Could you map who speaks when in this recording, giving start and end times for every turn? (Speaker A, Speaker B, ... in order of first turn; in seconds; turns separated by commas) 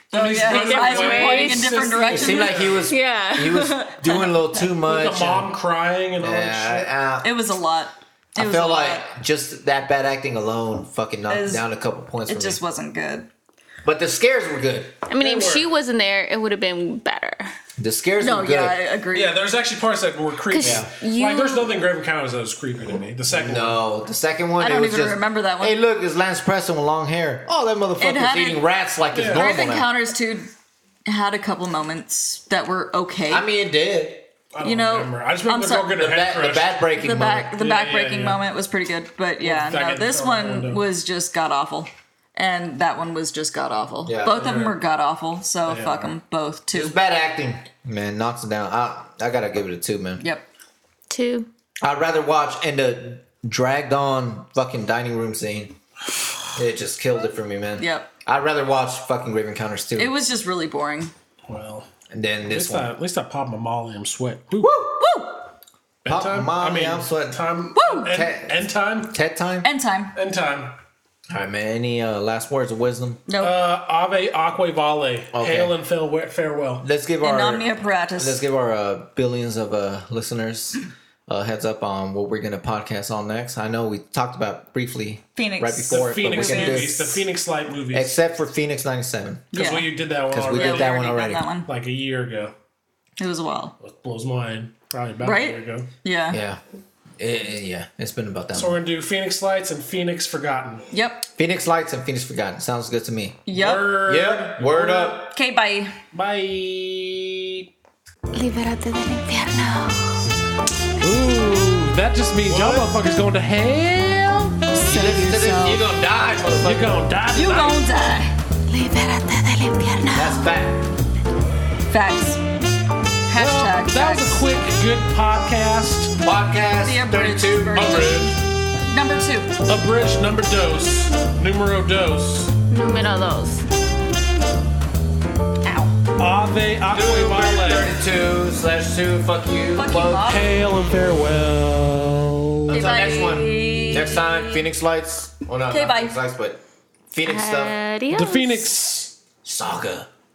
Speaker A: 0.1-2.6, Speaker B: 0.1-2.9, Speaker C: 0.4-1.9, Speaker D: 2.1-5.5, Speaker C: 2.9-3.8, Speaker A: 3.9-4.6, Speaker B: 4.8-6.9, Speaker D: 6.2-7.3, Speaker A: 7.2-9.1, Speaker D: 8.3-12.6, Speaker A: 11.3-11.7, Speaker A: 12.3-13.3, Speaker D: 13.8-15.0, Speaker C: 15.1-17.4, Speaker B: 15.2-15.7, Speaker D: 17.8-18.8, Speaker A: 18.2-19.4, Speaker B: 19.1-23.8, Speaker C: 20.5-21.7, Speaker D: 20.6-20.9, Speaker D: 23.3-29.9, Speaker A: 24.6-25.8, Speaker A: 28.0-28.6, Speaker B: 29.1-29.5, Speaker A: 29.3-30.5, Speaker A: 31.1-33.5, Speaker D: 33.3-34.3, Speaker B: 34.5-36.8, Speaker A: 34.6-36.0, Speaker D: 36.0-37.5, Speaker A: 36.9-47.0, Speaker B: 37.5-38.4, Speaker B: 39.4-40.8, Speaker D: 44.0-44.4, Speaker B: 44.3-44.8, Speaker B: 45.6-46.1, Speaker D: 46.7-50.2, Speaker A: 50.2-50.5, Speaker C: 51.1-51.5, Speaker D: 51.8-55.7, Speaker D: 56.5-60.1, Speaker A: 57.8-58.1, Speaker A: 60.0-61.1, Speaker B: 61.5-61.9, Speaker D: 62.1-62.9, Speaker B: 62.4-64.7, Speaker A: 64.6-65.5, Speaker B: 66.0-69.2, Speaker D: 66.1-67.4, Speaker A: 67.7-68.1, Speaker D: 68.0-69.7, Speaker A: 69.6-70.2, Speaker B: 70.1-70.8, Speaker D: 71.3-73.2, Speaker A: 73.3-73.5, Speaker B: 73.4-76.8, Speaker D: 75.3-75.7, Speaker D: 76.8-87.2, Speaker A: 77.2-78.4, Speaker A: 85.3-87.0, Speaker B: 85.9-88.2, Speaker D: 87.9-89.7, Speaker A: 89.5-89.9, Speaker B: 89.5-90.9, Speaker D: 90.3-91.5, Speaker A: 90.5-91.7, Speaker B: 91.7-92.5, Speaker A: 93.2-93.8, Speaker B: 93.8-95.9, Speaker A: 95.2-96.4, Speaker D: 96.3-96.6, Speaker D: 97.2-98.8, Speaker B: 98.5-100.8, Speaker A: 100.9-101.3, Speaker D: 101.4-103.5, Speaker A: 103.5-104.0, Speaker B: 103.5-105.2, Speaker D: 104.0-105.3, Speaker A: 105.2-106.0, Speaker B: 106.1-107.7, Speaker C: 108.3-110.2, Speaker B: 111.0-114.5, Speaker D: 112.5-112.9, Speaker A: 114.7-115.9, Speaker D: 114.8-117.0, Speaker B: 116.6-117.9, Speaker A: 117.3-118.4, Speaker C: 118.7-120.4, Speaker D: 120.1-120.9, Speaker A: 121.9-122.4, Speaker A: 123.3-124.5, Speaker B: 123.3-126.1, Speaker D: 126.2-128.3, Speaker A: 126.8-128.3, Speaker B: 127.7-128.3, Speaker A: 128.8-129.6, Speaker B: 129.7-132.5, Speaker C: 132.7-133.7, Speaker A: 135.6-136.0, Speaker B: 136.2-137.9, Speaker D: 136.9-140.3, Speaker A: 139.7-140.5, Speaker B: 140.2-142.9, Speaker D: 142.7-147.8, Speaker A: 142.7-144.7, Speaker A: 145.7-146.2, Speaker C: 147.2-148.7, Speaker B: 148.1-149.2, Speaker D: 149.4-150.1